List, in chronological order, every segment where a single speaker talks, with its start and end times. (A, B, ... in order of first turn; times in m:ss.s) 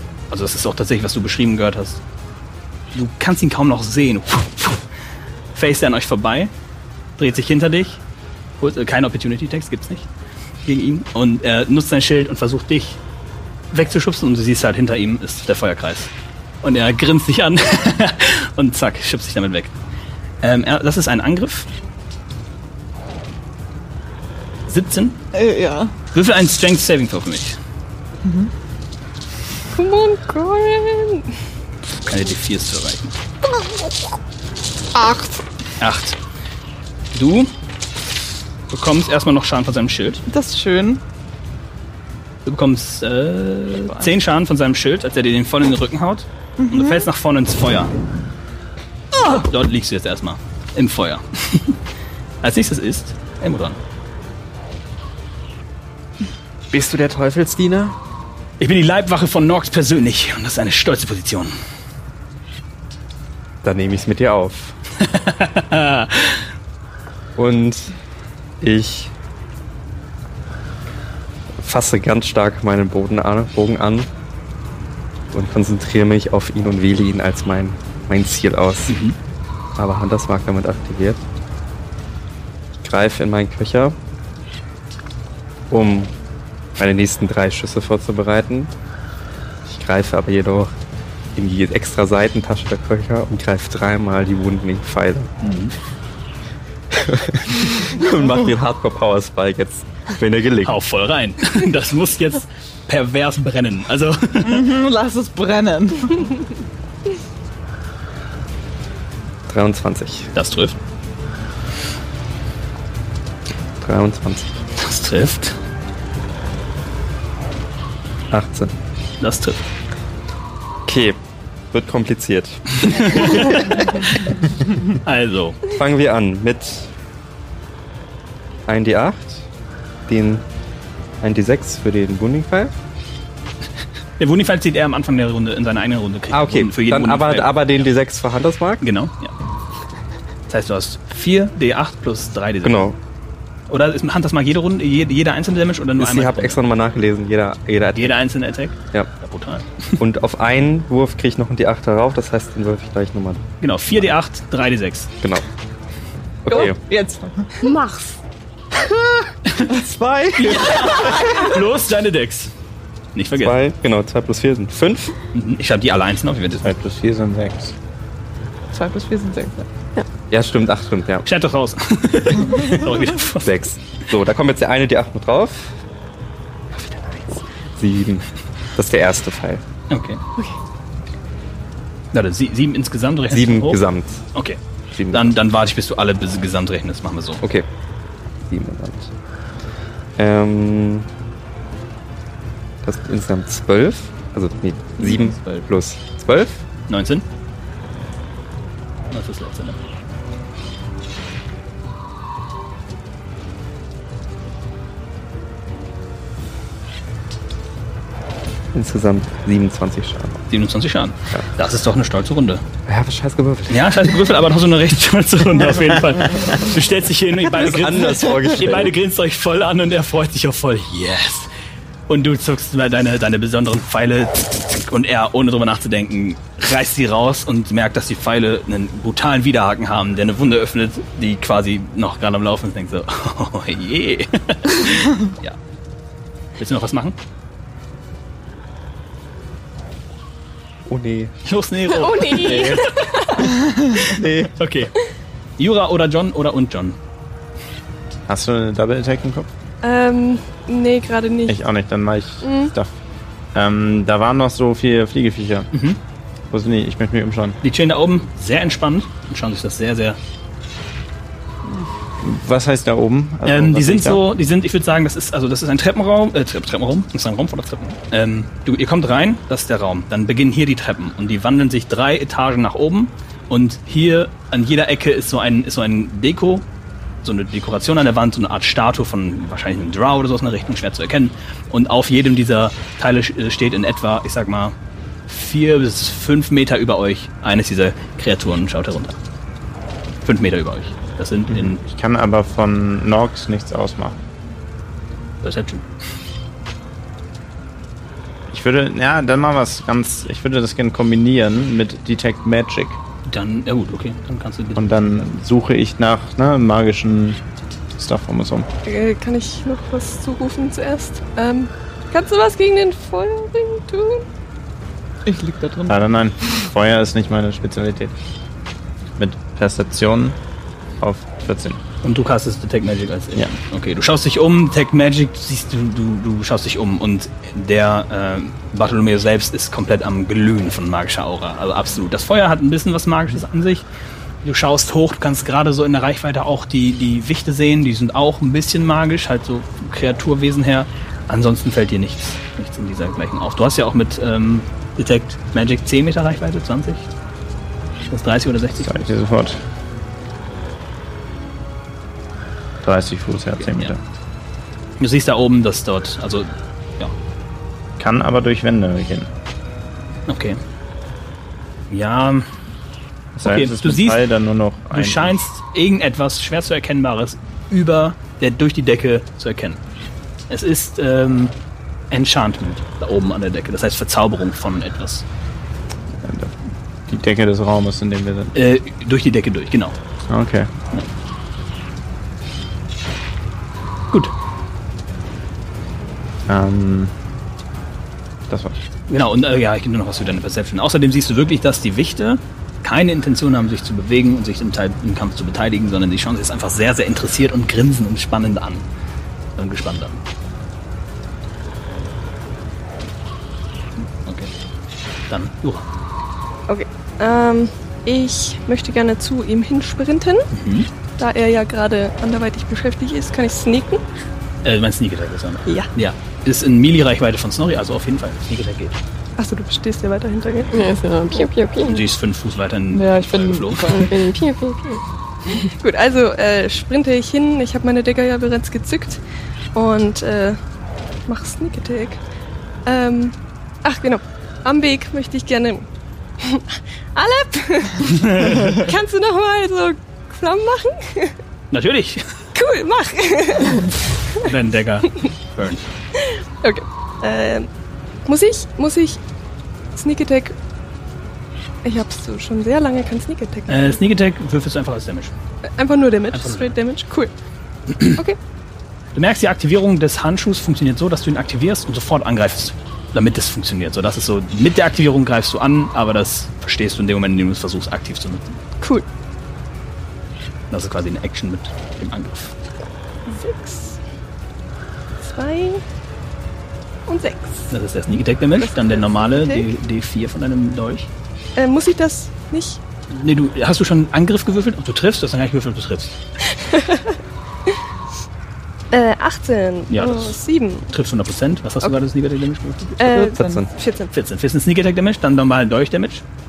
0:00.3-0:02.0 A
0:02.9-0:04.9 A
0:05.5-0:06.5 A
0:07.2-0:08.0 A
0:08.6-0:10.1 A
0:10.6-0:13.0 A
0:13.7-0:16.1 A
0:16.6-0:19.8 A
0:20.4-0:21.7 A
0:24.7-0:25.2 A
0:25.3-0:25.9 B
0:26.1-0:27.6 A
0:28.2-0:28.5 B
0:29.7-0:31.3 C
0:32.0-0:33.1 A
0:35.0-0:35.4 B
0:35.8-0:36.2 A
0:37.1-0:37.5 A
0:38.7-0:40.2 A
0:40.3-0:41.0 B
0:42.4-0:47.9 A
0:43.8-0:44.1 B
0:46.6-0:47.1 B
0:49.3-0:51.8 A
0:52.4-0:53.8 A
0:56.7-0:58.0 D
0:58.6-1:01.5 A
1:03.6-1:04.8 D
1:05.0-1:06.4 A
1:07.4-1:07.9 D
1:08.6-1:09.1 D
1:11.6-1:14.1 D
1:15.3-1:19.0 D
1:18.9-1:19.2 A
1:19.8-1:21.2 D
1:22.8-1:24.0 D
1:25.7-1:26.1 D
1:26.8-1:28.7 D
1:29.7-1:30.8 D
1:31.4-1:35.3 D
1:35.4-1:35.7 A
1:36.9-1:40.8 D
1:40.6-1:44.7 A
1:44.4-1:46.3 B
1:49.5-1:50.3 D
1:50.4-1:50.8 A
1:53.8-1:54.6 D
1:54.8-1:55.6 A
1:58.3-1:58.8 D
1:59.2-1:59.6 A
2:00.9-2:03.4 D
2:02.8-2:04.1 A
2:05.0-2:05.6 A
2:05.7-2:06.9 D
2:08.7-2:09.5 D
2:10.1-2:10.4 D
2:11.2-2:12.7 D
2:14.2-2:17.9 A
2:16.3-2:18.8 D
2:18.8-2:19.3 A
2:20.5-2:22.9 A
2:22.6-2:23.0 D
2:23.7-2:26.6 A
2:26.0-2:28.2 D
2:28.0-2:29.9 A
2:30.0-2:33.4 D
2:33.6-2:35.1 A
2:36.4-2:36.8 D
2:36.5-2:37.7 B
2:37.6-2:38.2 E
2:39.7-2:41.4 B
2:40.4-2:42.5 A
2:43.2-2:43.6 A
2:43.4-2:45.1 D
2:45.3-2:46.7 A
2:46.6-2:47.7 F
2:48.7-2:49.7 B
2:50.3-2:51.3 D
2:51.2-2:53.6 A
2:53.4-2:55.8 D
2:56.7-2:59.6 D
2:59.9-3:00.2 A
3:02.1-3:03.8 A
3:03.3-3:04.2 D
3:04.3-3:04.6 A
3:04.9-3:05.4 D
3:05.1-3:07.4 A
3:07.4-3:07.7 D
3:08.5-3:09.1 D
3:10.2-3:11.1 D
3:12.8-3:16.6 D
3:15.0-3:15.7 B
3:16.9-3:17.2 A
3:19.1-3:19.8 A
3:28.7-3:30.4 D
3:30.5-3:32.6 A
3:32.9-3:34.1 D
3:33.7-3:41.5 A
3:37.5-3:38.9 D
3:42.1-3:55.6 A
3:56.6-3:57.2 A
4:00.9-4:01.3 D
4:01.5-4:03.5 A
4:01.9-4:03.6 E
4:04.1-4:04.5 D
4:04.6-4:04.9 A
4:05.6-4:07.0 A
4:08.3-4:09.5 F
4:09.8-4:11.6 C
4:11.5-4:12.9 F
4:12.4-4:12.7 C
4:13.5-4:15.7 F
4:15.7-4:16.0 A
4:16.5-4:17.6 F
4:17.6-4:20.2 A
4:22.2-4:24.2 F
4:23.4-4:36.7 A
4:37.2-4:44.8 A
4:45.3-4:49.2 A
4:50.2-4:51.8 A
4:51.5-4:54.2 F
4:55.4-4:55.8 A
4:58.5-5:03.0 F
5:03.3-5:04.9 A
5:04.8-5:07.4 F
5:08.0-5:08.7 F
5:08.8-5:14.3 C
5:15.3-5:16.0 B
5:15.9-5:18.1 F
5:19.2-5:20.4 F
5:21.0-5:21.8 F
5:22.0-5:33.9 A
5:34.4-5:47.1 A
5:48.1-5:49.1 A
5:48.8-5:49.6 F
5:52.8-5:54.0 F
5:53.6-5:53.9 A
5:55.0-5:57.1 A
5:58.0-5:59.3 F
6:00.3-6:00.6 A
6:01.9-6:02.5 A
6:03.4-6:05.4 F
6:03.4-6:04.3 A
6:04.9-6:09.8 A
6:10.5-6:11.6 A
6:12.1-6:15.2 A
6:16.2-6:18.5 F
6:18.6-6:20.0 A
6:20.3-6:20.7 F
6:26.5-6:27.1 F
6:28.5-6:28.8 F
6:29.1-6:38.9 A
6:39.6-6:40.2 A
6:44.2-6:44.5 A
6:45.3-6:45.9 A
6:46.7-6:50.5 C
6:50.5-6:50.9 A
6:51.2-6:54.0 C
6:54.6-6:59.0 A
6:59.4-7:00.9 C
7:00.7-7:02.0 E
7:01.8-7:04.1 A
7:02.9-7:04.3 B
7:03.9-7:05.0 E
7:05.8-7:09.2 C
7:09.8-7:10.6 C
7:11.3-7:12.2 C
7:12.9-7:15.9 C
7:16.4-7:21.4 C
7:18.1-7:18.8 A
7:21.7-7:22.2 A
7:22.6-7:23.9 C
7:24.4-7:25.9 A
7:26.2-7:27.7 C
7:28.3-7:29.2 C
7:29.9-7:30.6 C
7:31.8-7:34.0 C
7:33.7-7:35.3 A
7:35.7-7:37.3 C
7:36.3-7:36.7 A
7:37.9-7:38.2 A
7:39.2-7:48.5 A
7:48.8-7:49.1 C
7:50.7-7:52.5 A
7:53.3-7:54.0 C
7:55.2-7:55.8 C
7:57.1-7:57.7 C
7:57.7-8:01.1 A
7:58.6-7:59.7 C
8:01.6-8:02.8 C
8:03.1-8:06.2 A
8:06.6-8:07.2 C
8:08.9-8:10.9 C
8:09.9-8:10.4 A
8:10.9-8:13.0 A
8:13.0-8:14.1 C
8:13.0-8:13.6 B
8:13.4-8:13.7 D
8:14.1-8:16.2 A